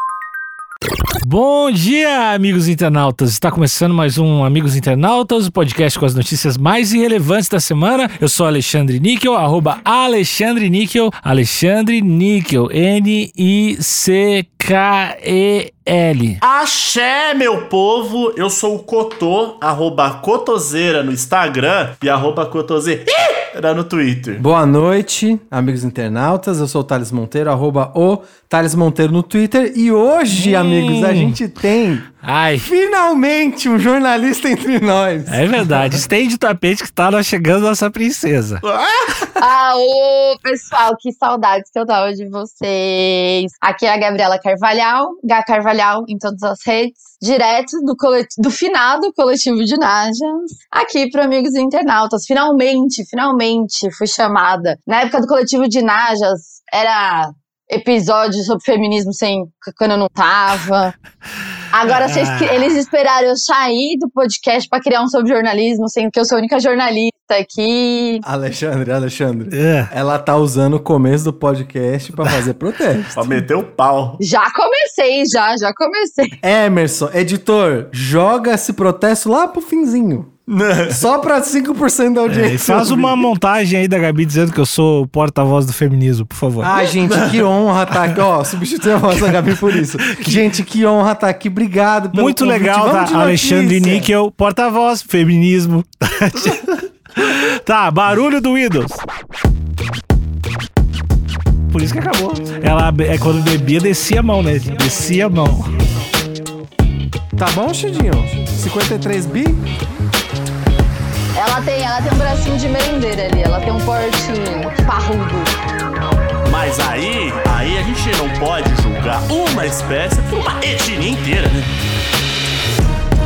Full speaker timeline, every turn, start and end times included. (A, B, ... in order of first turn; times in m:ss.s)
0:01.2-0:16.4 A
0:16.4-0:24.4 B
0:24.4-0:36.0 C
0:30.3-0:31.4 A
0:32.2-0:32.7 A
0:35.3-0:38.6 A
0:38.6-0:39.3 B
0:39.4-1:00.9 D
1:01.7-1:08.2 D
1:02.0-1:02.5 A
1:08.2-1:13.4 C
1:09.5-1:09.9 A
1:13.1-1:14.2 B
1:14.2-1:16.4 D
1:16.4-1:23.3 C
1:20.5-1:21.0 B
1:22.3-1:26.8 A
1:26.6-1:34.1 C
1:27.1-1:27.4 B
1:32.1-1:39.0 A
1:41.7-1:45.7 A
1:47.4-1:49.6 C
1:51.3-1:55.5 D
1:56.4-2:01.7 B